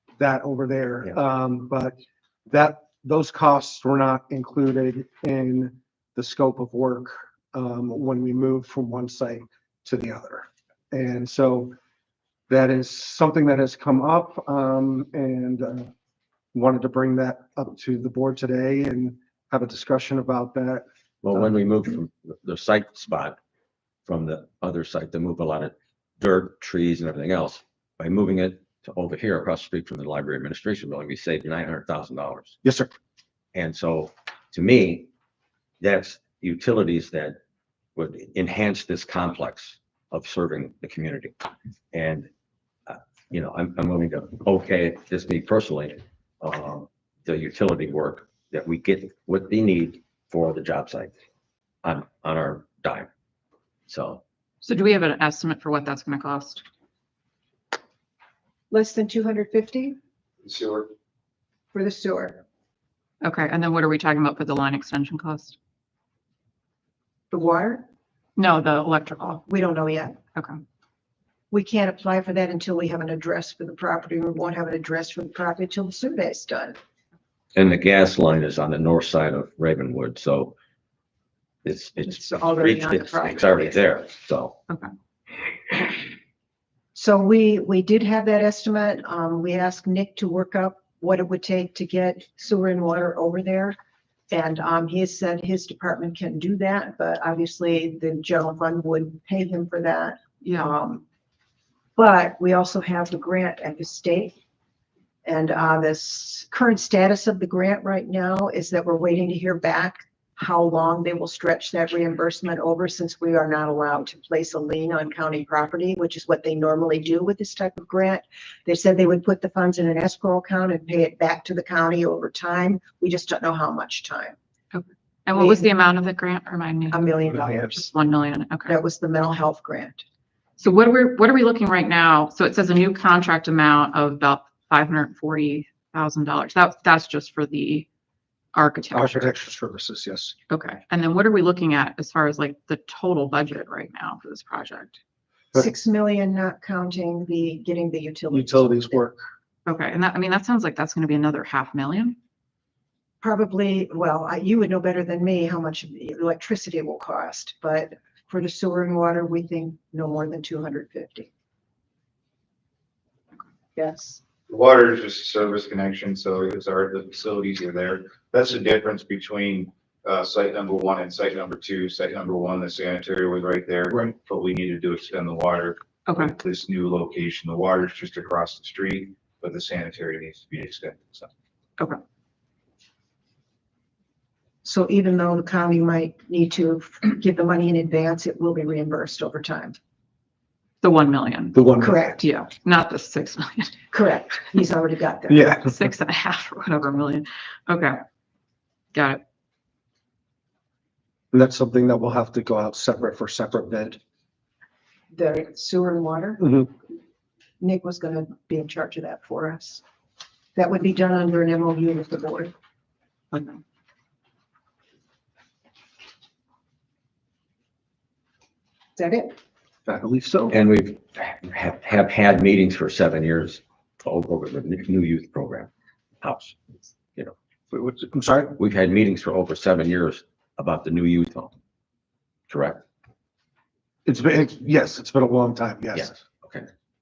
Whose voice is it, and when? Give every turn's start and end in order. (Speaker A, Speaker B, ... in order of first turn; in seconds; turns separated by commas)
Speaker A: 0.2-1.9, Speaker A: 2.5-11.7, Speaker A: 12.5-15.9, Speaker A: 16.5-21.5, Speaker B: 21.2-23.4, Speaker B: 24.1-32.6, Speaker A: 32.6-32.9, Speaker B: 33.5-35.1, Speaker B: 35.8-37.4, Speaker B: 37.9-41.3, Speaker B: 41.9-42.3, Speaker B: 42.9-51.1, Speaker B: 51.8-53.1, Speaker B: 53.9-54.2, Speaker C: 54.6-56.6, Speaker D: 58.7-60.0, Speaker E: 60.4-60.9, Speaker D: 61.7-62.4, Speaker C: 63.2-65.5, Speaker D: 67.3-67.8, Speaker C: 68.3-69.4, Speaker D: 69.5-70.2, Speaker C: 70.3-70.6, Speaker D: 71.5-76.8, Speaker B: 77.5-80.5, Speaker B: 81.6-84.6, Speaker D: 82.0-83.6, Speaker D: 86.9-93.8, Speaker D: 94.3-101.0, Speaker C: 100.4-100.7, Speaker D: 102.0-104.3, Speaker D: 105.2-124.3, Speaker C: 124.7-128.8, Speaker D: 125.3-125.7, Speaker D: 126.9-127.8, Speaker A: 127.3-127.7, Speaker D: 128.7-130.0, Speaker C: 130.6-137.9, Speaker C: 138.5-139.3, Speaker A: 138.9-140.3, Speaker C: 140.5-145.0, Speaker D: 145.5-149.0, Speaker A: 148.3-149.2, Speaker C: 149.7-152.2, Speaker D: 153.2-161.3, Speaker D: 163.8-164.2, Speaker E: 164.5-181.3, Speaker C: 176.1-176.3, Speaker D: 184.6-189.8, Speaker C: 190.8-191.6, Speaker A: 191.5-192.1, Speaker D: 191.8-192.2, Speaker C: 192.2-193.8, Speaker D: 193.9-195.5, Speaker A: 195.3-195.8, Speaker C: 195.6-198.0, Speaker C: 198.9-199.2, Speaker A: 201.3-204.0, Speaker D: 205.1-206.5, Speaker A: 206.4-206.7, Speaker D: 207.6-209.8, Speaker D: 210.5-212.5, Speaker D: 218.9-219.3, Speaker A: 219.8-220.5, Speaker B: 220.5-225.7, Speaker B: 226.2-226.6, Speaker A: 227.7-228.6, Speaker B: 228.6-231.5, Speaker B: 232.5-232.8, Speaker A: 234.1-236.1, Speaker B: 235.9-236.7